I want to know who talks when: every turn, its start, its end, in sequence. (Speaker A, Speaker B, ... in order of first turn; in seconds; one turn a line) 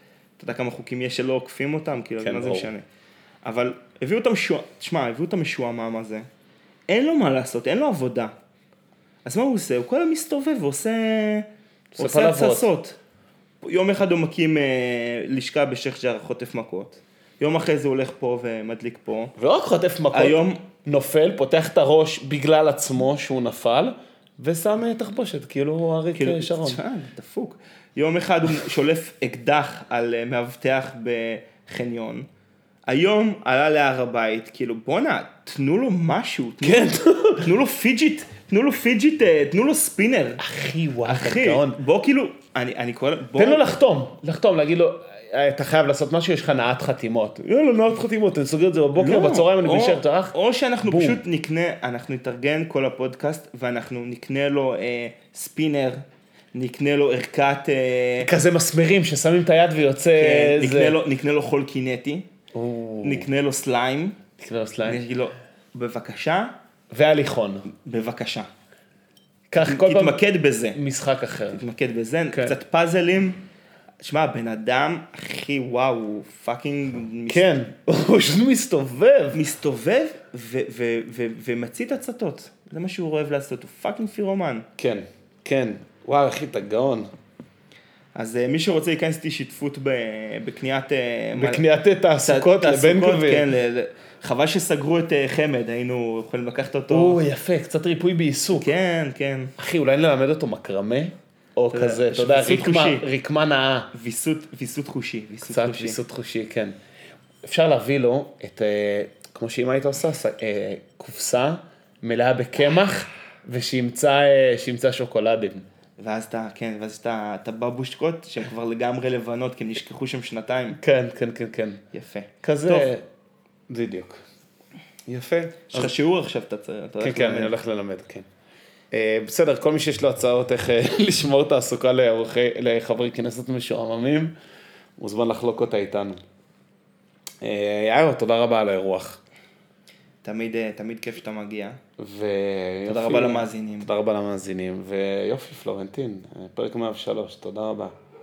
Speaker A: 0.4-2.8
Speaker B: 2.2-2.7
Speaker A: 3.4-6.3
Speaker A: 6.9-8.3
Speaker A: 9.2-11.5
Speaker B: 11.9-12.7
Speaker A: 12.0-13.0
Speaker A: 13.6-19.3
Speaker B: 19.4-26.8
Speaker A: 20.1-20.6
Speaker A: 26.1-32.3
Speaker A: 32.9-40.4
Speaker B: 36.6-37.5
Speaker B: 40.4-41.8
Speaker A: 41.0-43.6
Speaker B: 43.4-51.2
Speaker A: 49.0-56.0
Speaker A: 56.5-58.3
Speaker B: 58.2-61.0
Speaker A: 60.1-62.3
Speaker B: 62.5-63.3
Speaker A: 63.0-64.2
Speaker B: 64.4-65.0
Speaker A: 64.8-66.5
Speaker B: 66.9-67.7
Speaker A: 67.7-68.5
Speaker B: 69.5-70.2
Speaker A: 69.6-70.8
Speaker B: 70.7-71.6
Speaker A: 71.5-73.4
Speaker A: 74.0-77.5
Speaker B: 77.3-79.4
Speaker A: 79.3-84.7
Speaker B: 84.8-87.1
Speaker A: 88.1-91.6
Speaker B: 91.3-93.5
Speaker A: 92.2-97.2
Speaker B: 96.9-98.7
Speaker A: 98.5-99.5
Speaker B: 99.6-103.9
Speaker A: 101.7-103.0
Speaker A: 103.9-106.0
Speaker B: 105.4-106.8
Speaker B: 107.4-115.7
Speaker A: 116.0-120.8
Speaker B: 120.8-121.8
Speaker A: 121.9-122.9
Speaker B: 122.4-123.0
Speaker B: 123.7-124.2
Speaker B: 125.1-125.9
Speaker A: 125.7-127.5
Speaker B: 127.0-128.3
Speaker B: 128.9-134.3
Speaker B: 135.0-136.2
Speaker B: 137.4-139.2
Speaker A: 140.2-141.8
Speaker B: 142.0-147.9
Speaker A: 142.9-143.9